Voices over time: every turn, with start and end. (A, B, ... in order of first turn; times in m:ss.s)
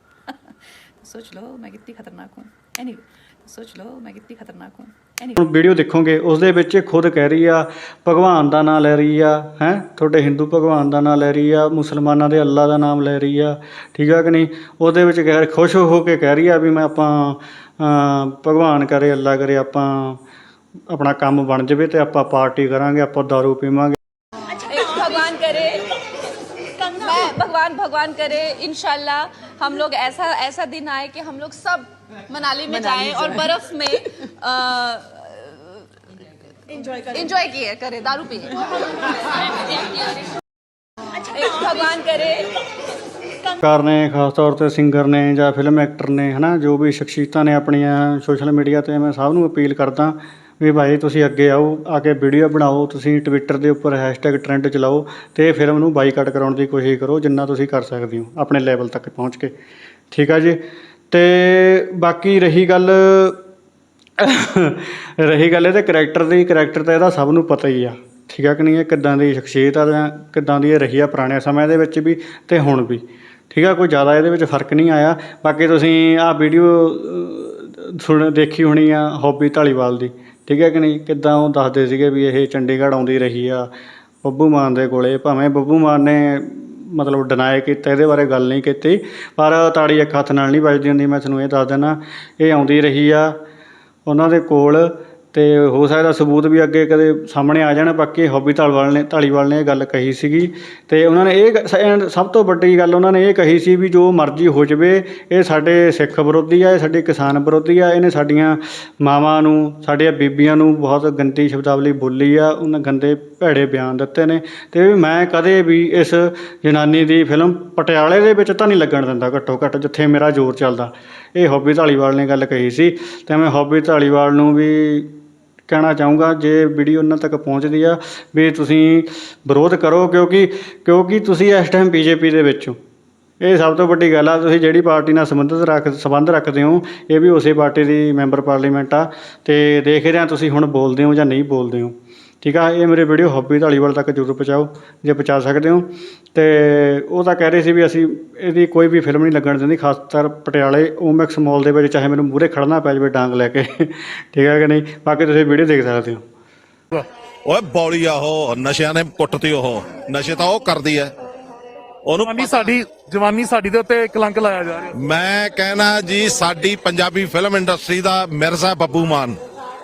0:00.3-0:05.4 A
0:05.4-0:20.2 B
0:20.9-0:24.0 B
0:24.7-0:25.7 C
0:25.4-0:25.8 A
0:27.0-0:33.9 C
0:32.8-0:34.5 A
0:34.4-0:35.8 C
0:37.1-0:40.3 C
0:41.3-0:42.5 C
0:43.6-0:59.5 B
1:00.1-1:00.6 B
1:01.1-1:03.4 B
1:04.2-1:23.7 B
1:24.2-1:33.4 B
1:34.1-2:05.1 B
2:05.7-2:12.8 B
2:13.4-2:36.2 B
2:37.5-2:41.1 D
2:42.0-2:42.7 D
2:42.2-2:44.9 E
2:44.9-2:49.4 D